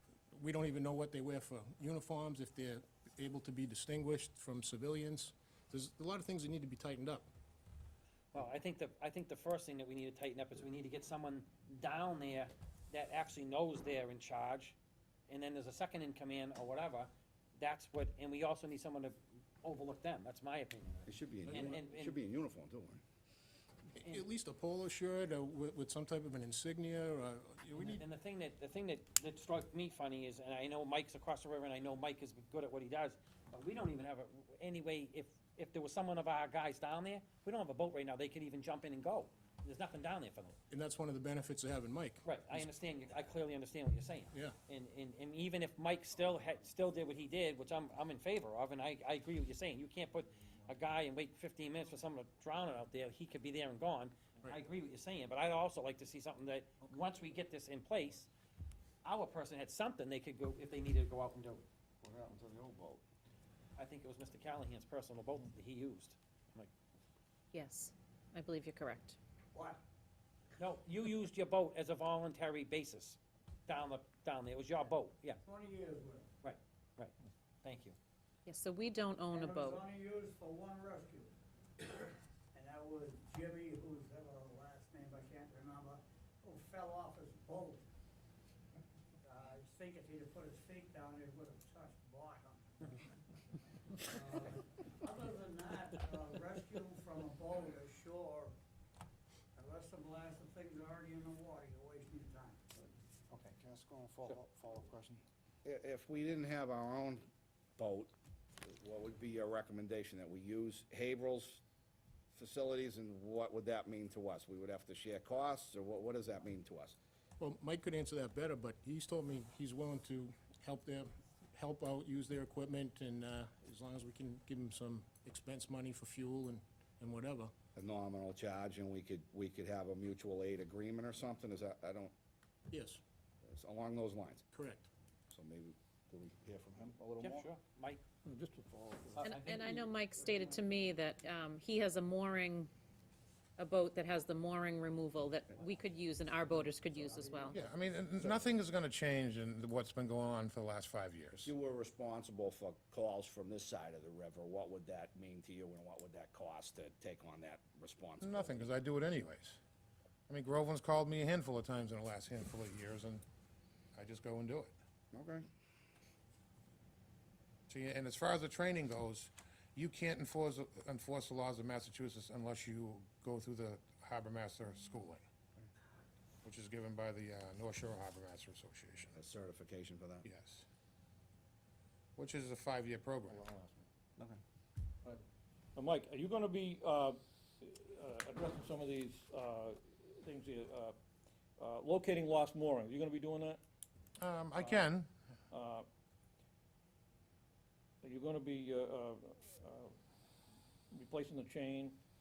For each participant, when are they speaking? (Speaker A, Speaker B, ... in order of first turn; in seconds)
Speaker A: 0.3-7.3, 23.9-28.0, 40.7-42.2, 117.4-127.5, 132.7-133.0, 134.5-134.9
Speaker B: 8.3-14.8, 15.3-22.2, 27.8-40.6, 42.2-58.3, 59.0-61.6, 63.8-66.7, 70.6-75.4, 76.4-78.0, 137.2-138.0, 139.2-140.7
Speaker C: 21.1-23.0, 62.0-63.0, 103.3-111.6, 112.3-117.0, 127.8-132.1, 133.4-134.4, 135.3-137.4, 148.2-148.5, 151.4-158.7, 165.1-165.5, 179.2-180.3
Speaker D: 67.5-69.2, 78.5-79.8, 139.2-142.7, 143.6-147.6
Speaker E: 69.5-69.8, 75.4-76.3, 79.3-87.8, 89.2-92.7, 94.1-98.5, 99.5-102.6
Speaker F: 138.2-139.3, 185.8-191.0, 191.6-193.6, 195.5-195.9, 198.0-199.9, 200.9-202.0
Speaker G: 147.5-151.5, 158.2-159.6, 160.3-163.2, 163.9-164.7, 167.7-175.2, 176.4-179.2, 180.2-180.7, 182.2-183.4, 194.2-195.1